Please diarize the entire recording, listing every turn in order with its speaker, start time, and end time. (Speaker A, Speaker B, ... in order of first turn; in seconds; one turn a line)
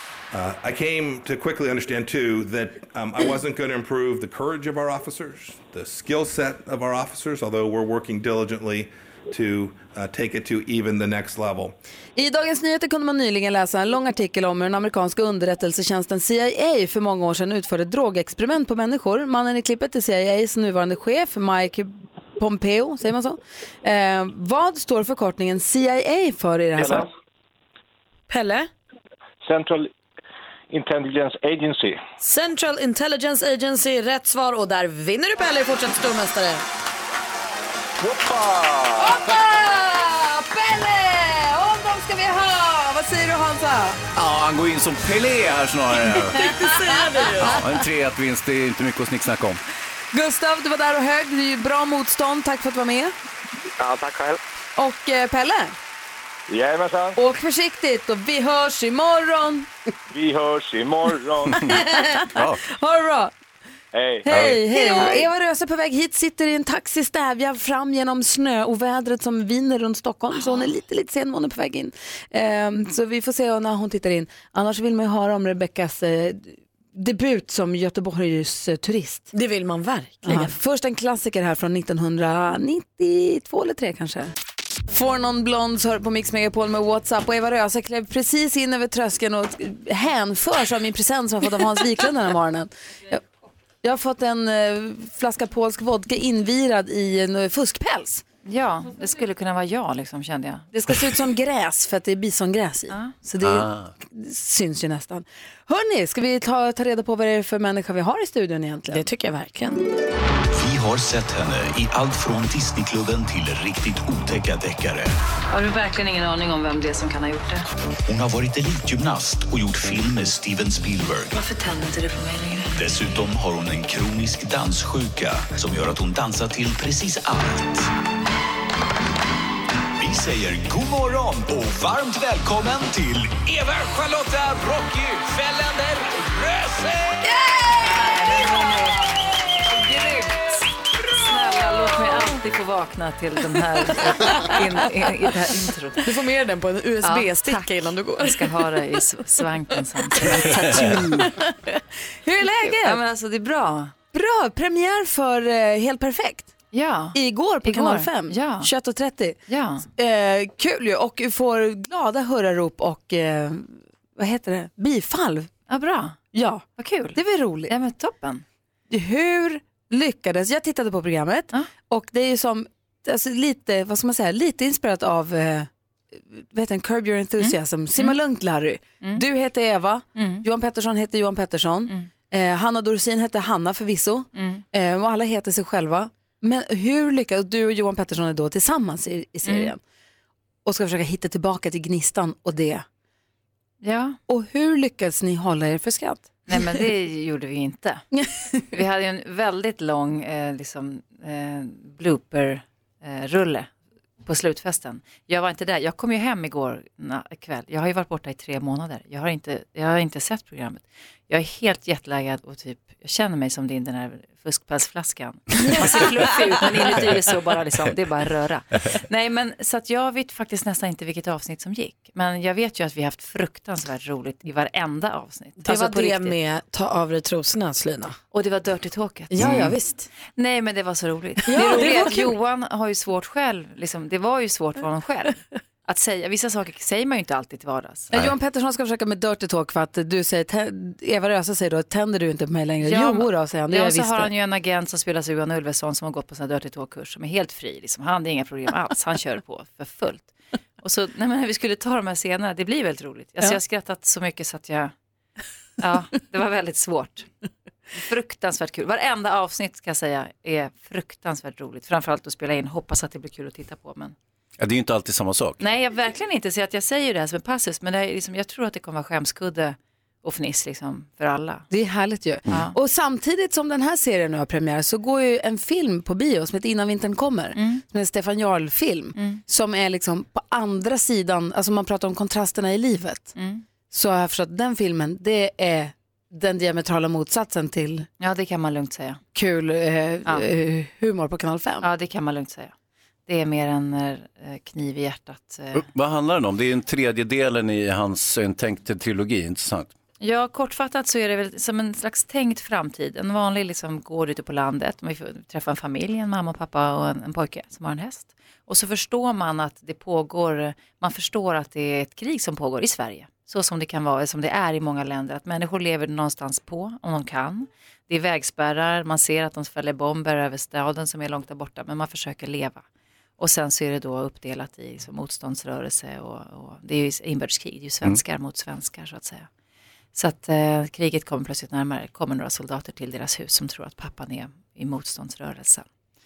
Speaker A: 0.3-11.7
Speaker B: 12.2-27.1
Speaker C: 28.3-28.7
Speaker D: 29.4-29.9
Speaker D: 30.7-32.0
Speaker C: 32.2-36.6
Speaker D: 38.0-39.1
Speaker B: 39.0-44.0
Speaker E: 44.1-46.6
Speaker C: 46.4-47.6
Speaker B: 46.4-47.6
Speaker E: 47.3-49.6
Speaker B: 50.1-53.1
Speaker B: 54.8-55.8
Speaker D: 56.5-57.2
Speaker B: 57.1-59.7
Speaker D: 60.1-61.7
Speaker B: 61.6-63.3
Speaker E: 62.3-62.6
Speaker D: 63.9-64.5
Speaker B: 64.2-79.3
Speaker E: 64.3-64.6
Speaker C: 79.3-80.5
Speaker B: 80.2-84.3
Speaker B: 84.9-93.2
Speaker B: 93.8-98.2
Speaker F: 98.4-100.7
Speaker B: 100.7-109.0
Speaker E: 103.4-103.9
Speaker C: 108.9-109.8
Speaker G: 110.5-115.1
Speaker F: 115.5-117.6
Speaker G: 118.1-121.4
Speaker G: 122.7-127.9
Speaker G: 129.9-137.2
Speaker B: 137.2-139.0
Speaker F: 137.9-138.4
Speaker B: 139.7-140.4
Speaker F: 141.1-146.1
Speaker C: 144.0-145.3
Speaker C: 146.0-148.7
Speaker F: 147.0-151.3
Speaker C: 150.1-151.4
Speaker E: 150.6-150.9
Speaker B: 152.2-153.0
Speaker F: 152.6-153.9
Speaker B: 154.1-156.5
Speaker F: 156.7-158.7
Speaker B: 157.1-159.4
Speaker F: 159.5-159.9
Speaker B: 159.9-165.5
Speaker F: 165.7-166.2
Speaker B: 166.3-167.7
Speaker F: 166.8-168.4
Speaker B: 168.9-189.8
Speaker F: 177.4-178.2
Speaker F: 180.2-180.4
Speaker F: 184.3-184.6
Speaker F: 189.4-189.7
Speaker B: 190.6-192.8
Speaker F: 193.8-194.2
Speaker B: 194.3-196.6
Speaker F: 196.5-198.0
Speaker B: 198.1-198.6
Speaker F: 198.7-203.7
Speaker F: 204.2-226.4
Speaker C: 225.6-228.2
Speaker F: 228.3-229.7
Speaker C: 229.3-230.1
Speaker E: 229.4-229.7
Speaker F: 230.2-238.1
Speaker C: 231.4-232.4
Speaker B: 238.1-244.3
Speaker F: 242.8-254.9
Speaker F: 255.8-257.3
Speaker F: 257.9-264.1
Speaker E: 264.6-265.6
Speaker F: 265.6-271.6
Speaker B: 271.7-283.3
Speaker F: 272.5-272.7
Speaker F: 277.5-277.8
Speaker F: 279.1-279.4
Speaker F: 283.3-283.6
Speaker B: 283.9-288.1
Speaker F: 288.2-289.2
Speaker B: 289.3-291.9
Speaker F: 291.8-292.7
Speaker F: 293.3-295.9
Speaker E: 295.7-299.9
Speaker F: 300.2-322.8
Speaker F: 323.4-329.5
Speaker F: 330.1-335.9